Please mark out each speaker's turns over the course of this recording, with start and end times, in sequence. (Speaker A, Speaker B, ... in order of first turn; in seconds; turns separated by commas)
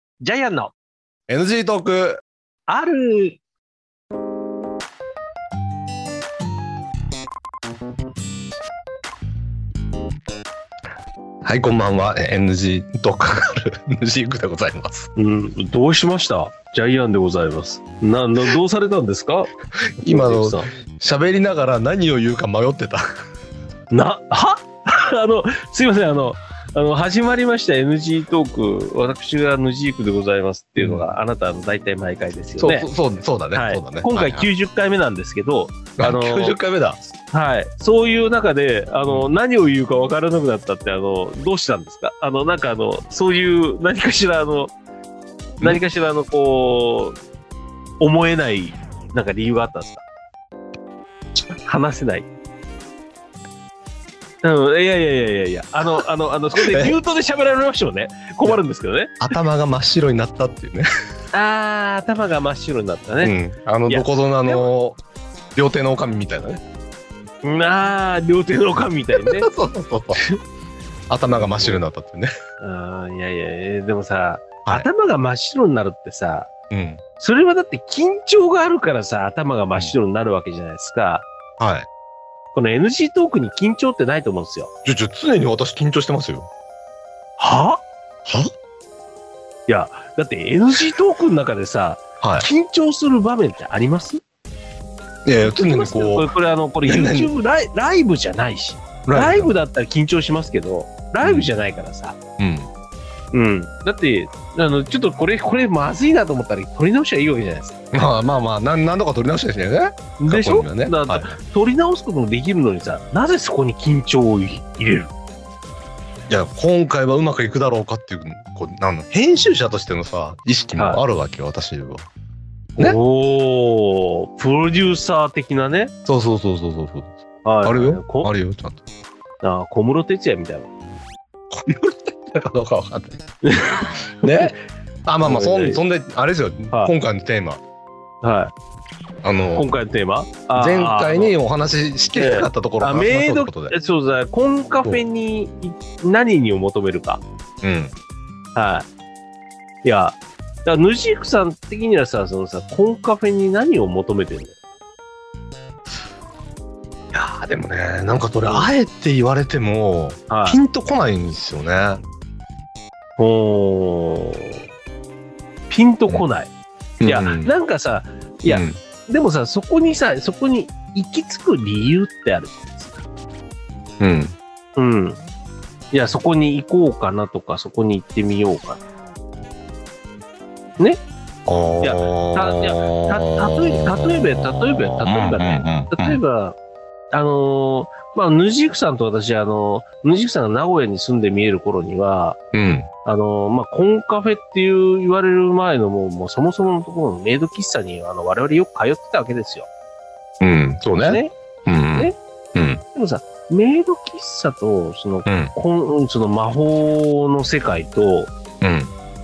Speaker A: 0.2-0.7, Speaker B: 1.3-2.2, Speaker A: 2.7-3.4, Speaker B: 11.4-15.1, Speaker A: 15.2-19.5, Speaker B: 20.0-23.0, Speaker A: 20.0-20.7, Speaker A: 23.9-32.9, Speaker B: 30.8-31.1, Speaker B: 32.6-34.5, Speaker A: 33.5-36.6, Speaker B: 36.0-37.0, Speaker A: 37.3-44.7, Speaker A: 45.6-47.2, Speaker A: 48.0-50.0, Speaker A: 51.6-52.3, Speaker A: 54.4-59.2, Speaker B: 56.6-57.0, Speaker B: 59.2-60.9, Speaker A: 61.3-63.3, Speaker B: 63.2-65.0, Speaker A: 63.9-64.7, Speaker B: 65.5-66.6, Speaker A: 67.4-69.5, Speaker B: 69.2-70.2, Speaker B: 71.1-72.3, Speaker A: 71.3-71.8, Speaker A: 72.6-76.5, Speaker B: 76.7-77.0, Speaker A: 77.2-81.3, Speaker B: 81.6-81.9, Speaker A: 82.5-84.7, Speaker B: 84.8-86.5, Speaker A: 87.4-87.8, Speaker A: 89.7-94.2, Speaker B: 92.2-92.5, Speaker B: 95.3-96.3, Speaker A: 95.4-102.2, Speaker B: 96.8-97.3, Speaker B: 99.1-99.6, Speaker B: 101.2-101.5, Speaker B: 102.4-102.7, Speaker A: 103.3-107.8, Speaker B: 107.9-111.3, Speaker A: 110.2-115.1, Speaker B: 116.3-122.1, Speaker A: 122.8-125.9, Speaker B: 126.1-128.8, Speaker A: 127.4-128.3, Speaker A: 129.4-130.7, Speaker B: 131.5-133.2, Speaker A: 133.4-134.5, Speaker B: 134.2-134.6, Speaker B: 135.1-137.6, Speaker A: 135.2-135.8, Speaker A: 138.2-138.5, Speaker B: 139.2-139.7, Speaker A: 139.6-141.3, Speaker B: 140.6-143.8, Speaker A: 142.2-147.2, Speaker B: 147.6-147.9, Speaker A: 148.6-148.9, Speaker A: 149.8-154.5, Speaker B: 157.1-162.0, Speaker A: 158.4-158.7, Speaker A: 160.3-160.6, Speaker A: 163.2-164.6, Speaker A: 165.7-166.5, Speaker B: 167.0-167.5, Speaker A: 167.1-173.0, Speaker B: 168.5-168.8, Speaker B: 174.0-174.3, Speaker A: 174.8-175.2, Speaker A: 175.9-178.8, Speaker B: 181.5-186.2, Speaker A: 181.8-186.6, Speaker A: 187.1-192.4, Speaker B: 192.5-192.9, Speaker A: 193.1-199.7, Speaker B: 200.4-202.8, Speaker A: 201.0-201.3, Speaker A: 202.9-208.3, Speaker B: 205.3-205.5, Speaker B: 208.6-208.9